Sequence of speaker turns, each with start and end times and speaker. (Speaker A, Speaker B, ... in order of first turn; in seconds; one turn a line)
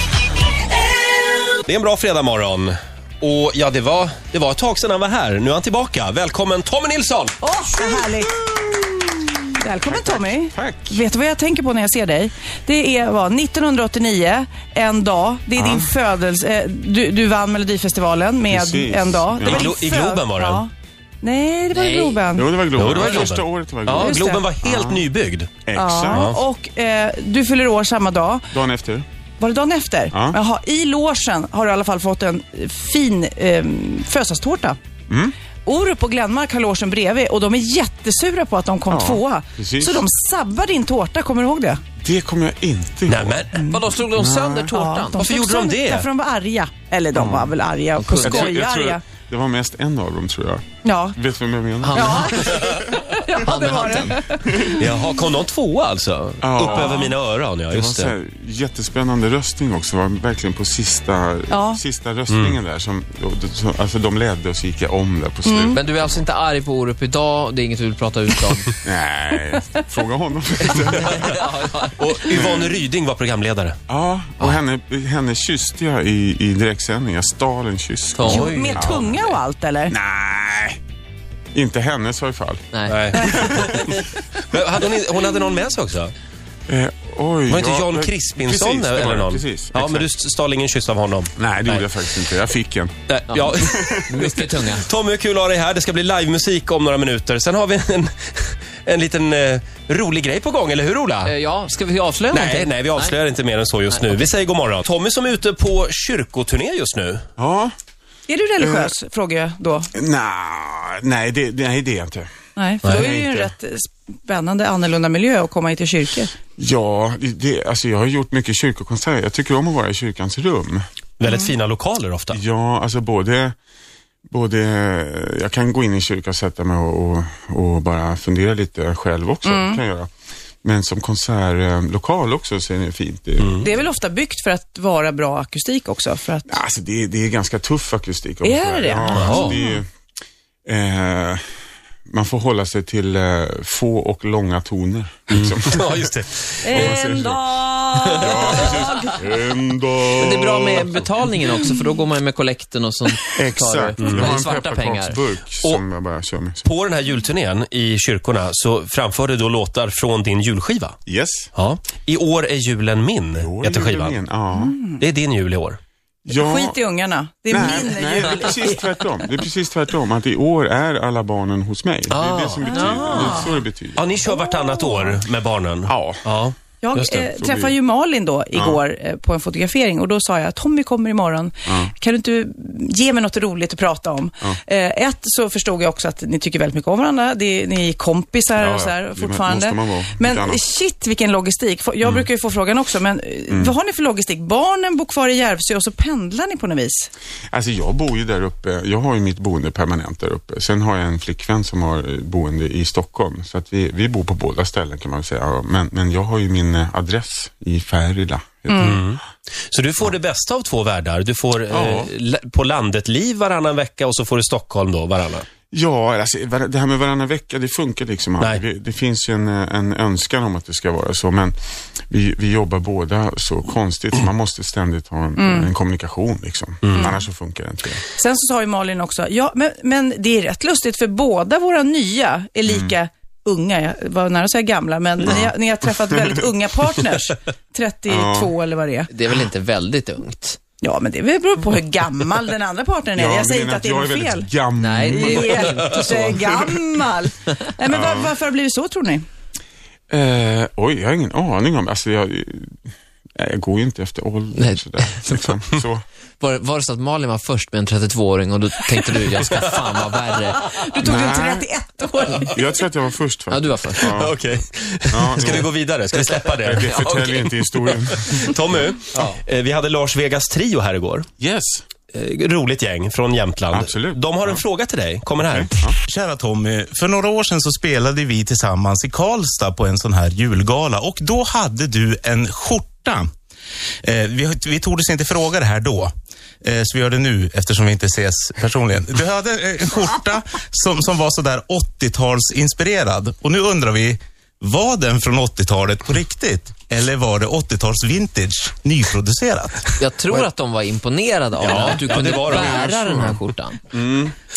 Speaker A: 1.6-7.3
Speaker B: 7.4-8.3
Speaker C: 8.0-8.6
Speaker B: 9.6-20.7
Speaker C: 9.8-11.0
Speaker C: 15.6-15.9
Speaker C: 18.4-19.7
Speaker A: 19.4-20.6
Speaker B: 21.2-22.5
Speaker D: 21.7-22.2
Speaker C: 22.4-25.1
Speaker A: 22.8-25.5
Speaker B: 23.9-24.4
Speaker C: 25.6-26.3
Speaker B: 25.7-28.5
Speaker A: 26.1-26.4
Speaker C: 28.5-29.1
Speaker B: 29.4-34.8
Speaker C: 30.1-30.4
Speaker C: 35.1-35.3
Speaker B: 35.6-41.8
Speaker C: 38.9-40.0
Speaker C: 42.0-43.4
Speaker A: 43.1-43.6
Speaker B: 43.5-43.8
Speaker D: 43.5-45.2
Speaker C: 44.1-44.7
Speaker B: 44.7-49.0
Speaker A: 45.2-46.0
Speaker C: 47.1-47.5
Speaker D: 48.0-48.6
Speaker C: 48.2-52.7
Speaker B: 50.8-51.2
Speaker D: 51.8-54.2
Speaker B: 51.9-54.8
Speaker C: 54.4-54.8
Speaker A: 54.8-58.1
Speaker C: 56.4-57.1
Speaker B: 56.6-57.1
Speaker C: 57.7-66.0
Speaker B: 61.5-61.8
Speaker A: 62.3-62.6
Speaker B: 65.4-65.8
Speaker D: 65.7-68.8
Speaker C: 68.8-71.5
Speaker D: 70.7-72.0
Speaker A: 71.1-71.4
Speaker A: 72.0-73.8
Speaker C: 72.3-72.7
Speaker C: 73.9-79.3
Speaker D: 78.1-78.5
Speaker B: 78.2-79.9
Speaker A: 78.3-78.8
Speaker C: 79.9-80.8
Speaker C: 81.5-83.8
Speaker A: 82.9-86.1
Speaker C: 86.7-90.1
Speaker A: 87.5-91.8
Speaker C: 91.4-92.9
Speaker A: 93.1-101.3
Speaker D: 93.3-94.9
Speaker C: 93.6-94.1
Speaker D: 101.2-103.1
Speaker A: 102.3-107.2
Speaker D: 103.9-104.2
Speaker C: 107.4-107.7
Speaker B: 108.3-109.9
Speaker C: 108.6-108.9
Speaker C: 109.9-112.3
Speaker B: 112.5-116.3
Speaker C: 112.8-113.5
Speaker C: 116.6-120.8
Speaker A: 121.2-122.4
Speaker C: 122.3-123.5
Speaker C: 124.3-130.1
Speaker B: 129.4-129.8
Speaker C: 130.6-133.7
Speaker B: 133.6-136.6
Speaker C: 136.5-139.9
Speaker B: 138.4-139.8
Speaker A: 139.1-139.6
Speaker C: 140.7-141.4
Speaker C: 142.1-146.0
Speaker A: 145.3-147.1
Speaker B: 146.6-149.3
Speaker C: 146.7-147.5
Speaker C: 148.2-151.0
Speaker D: 148.4-148.8
Speaker D: 150.1-155.2
Speaker C: 153.3-156.7
Speaker A: 154.0-154.4
Speaker A: 156.6-161.0
Speaker C: 161.1-161.5
Speaker A: 161.5-164.2
Speaker C: 163.4-164.8
Speaker B: 164.5-165.0
Speaker A: 165.0-165.8
Speaker C: 166.2-166.8
Speaker B: 166.3-168.8
Speaker C: 167.5-174.1
Speaker A: 172.1-177.3
Speaker B: 172.6-173.6
Speaker B: 174.5-175.1
Speaker C: 175.8-176.2
Speaker B: 176.8-197.1
Speaker C: 177.3-177.7
Speaker C: 178.5-178.8
Speaker C: 181.7-181.9
Speaker C: 188.6-190.6
Speaker C: 197.5-209.2
Speaker B: 208.7-209.0
Speaker A: 208.8-215.5
Speaker C: 211.7-212.1
Speaker C: 215.7-221.6
Speaker C: 222.1-228.0
Speaker B: 225.4-225.7
Speaker A: 226.8-227.1
Speaker B: 226.9-227.2
Speaker B: 228.1-239.1
Speaker C: 232.7-232.9
Speaker C: 235.2-235.5
Speaker C: 238.1-238.5
Speaker D: 239.1-240.6
Speaker B: 240.8-244.5
Speaker C: 243.2-245.9
Speaker D: 244.8-246.6
Speaker B: 245.1-249.2
Speaker C: 247.9-248.3
Speaker C: 250.1-252.8
Speaker C: 253.4-256.0
Speaker D: 254.6-255.5
Speaker D: 256.4-260.6
Speaker B: 260.7-262.6
Speaker C: 261.0-261.6
Speaker C: 262.5-264.4
Speaker D: 263.5-264.1
Speaker A: 264.0-271.3
Speaker C: 265.1-265.7
Speaker C: 266.6-268.5
Speaker D: 266.8-267.4
Speaker C: 271.4-271.8
Speaker A: 272.1-275.8
Speaker C: 273.7-274.6
Speaker C: 275.4-275.9
Speaker E: 276.1-283.3
Speaker E: 284.0-300.1
Speaker D: 300.0-303.8
Speaker A: 301.6-302.9
Speaker C: 302.3-303.4
Speaker C: 303.9-304.3